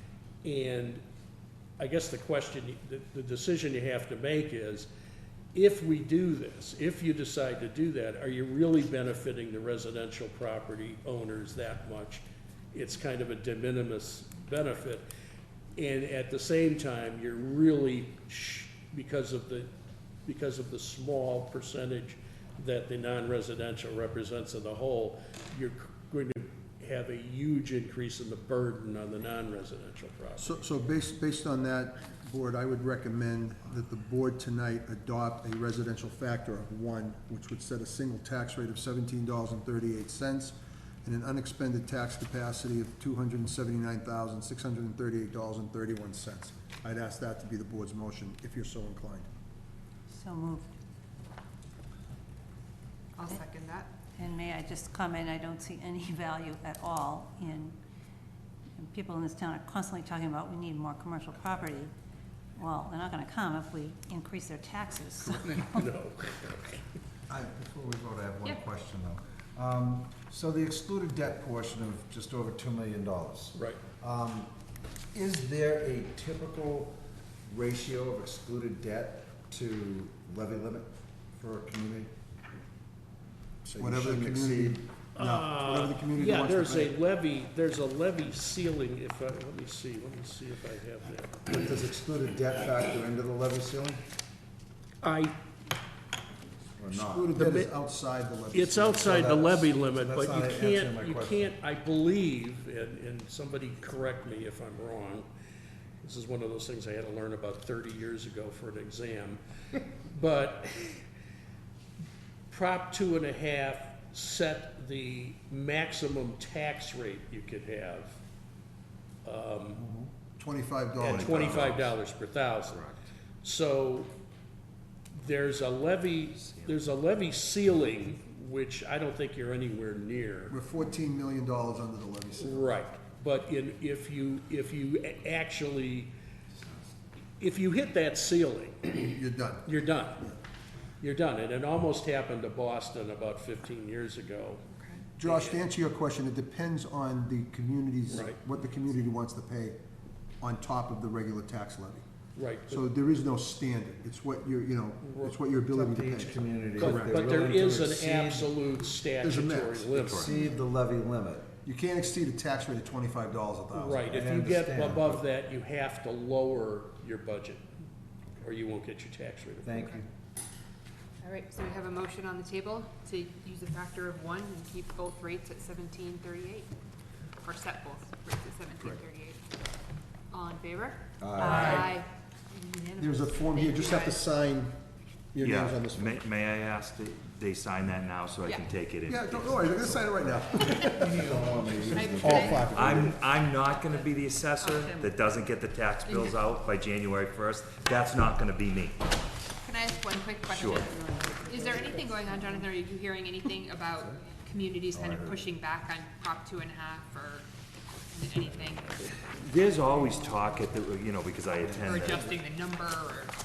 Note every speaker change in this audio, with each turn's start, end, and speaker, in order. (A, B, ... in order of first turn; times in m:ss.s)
0:00.4-0:01.0 A
0:01.8-0:04.9 A
0:05.5-0:15.0 A
0:15.8-0:19.7 A
0:20.2-0:30.6 A
0:30.4-0:49.3 B
0:50.1-0:50.7 C
0:53.2-0:53.9 D
0:54.2-0:57.8 C
0:58.8-1:01.9 C
1:02.6-1:05.9 C
1:05.2-1:06.8 A
1:07.3-1:14.5 E
1:13.5-1:13.8 A
1:15.1-1:22.1 E
1:23.6-1:24.8 E
1:23.7-1:26.9 B
1:25.2-1:31.4 A
1:31.5-1:34.0 E
1:35.0-1:35.3 A
1:36.8-1:37.4 E
1:36.9-1:39.3 B
1:37.4-1:37.7 A
1:38.5-1:45.2 A
1:39.0-1:41.5 E
1:46.0-1:49.4 A
1:50.0-1:51.0 A
1:52.5-1:58.2 A
1:59.2-1:59.8 A
1:59.9-2:01.8 B
2:01.0-2:01.9 F
2:01.0-2:02.9 A
2:03.4-2:04.1 A
2:05.1-2:10.5 A
2:06.4-2:06.7 F
2:10.5-2:12.7 B
2:12.4-2:16.1 A
2:16.5-2:16.8 E
2:17.4-2:19.1 A
2:19.0-2:19.7 B
2:19.6-2:20.2 A
2:21.0-2:24.6 A
2:24.8-2:25.0 D
2:25.2-2:29.8 B
2:25.2-2:25.6 A
2:28.1-2:28.4 A
2:30.4-2:32.1 B
2:32.4-2:32.8 A
2:32.7-2:37.2 B
2:35.0-2:35.4 A
2:35.7-2:38.5 E
2:36.8-2:40.3 A
2:39.2-2:39.9 B
2:39.9-2:41.5 E
2:41.6-2:44.2 B
2:43.7-2:47.6 A
2:44.1-2:45.2 E
2:48.4-2:49.8 A
2:49.6-2:50.1 E
2:51.2-2:56.7 D
2:57.4-2:59.4 D
3:00.3-3:04.2 D
3:01.2-3:01.9 E
3:03.0-3:04.7 B
3:05.3-3:06.2 B
3:05.4-3:10.1 F
3:09.1-3:11.4 B
3:11.0-3:13.2 E
3:11.9-3:12.7 D
3:12.2-3:13.1 B
3:12.7-3:19.0 F
3:13.3-3:15.1 D
3:16.0-3:16.4 D
3:19.6-3:27.5 D
3:20.5-3:20.9 F
3:21.0-3:21.5 C
3:23.9-3:24.2 E
3:24.9-3:25.5 E
3:28.1-3:29.0 D
3:28.4-3:28.9 E
3:29.0-3:32.3 F
3:31.6-3:32.3 E
3:31.8-3:33.3 D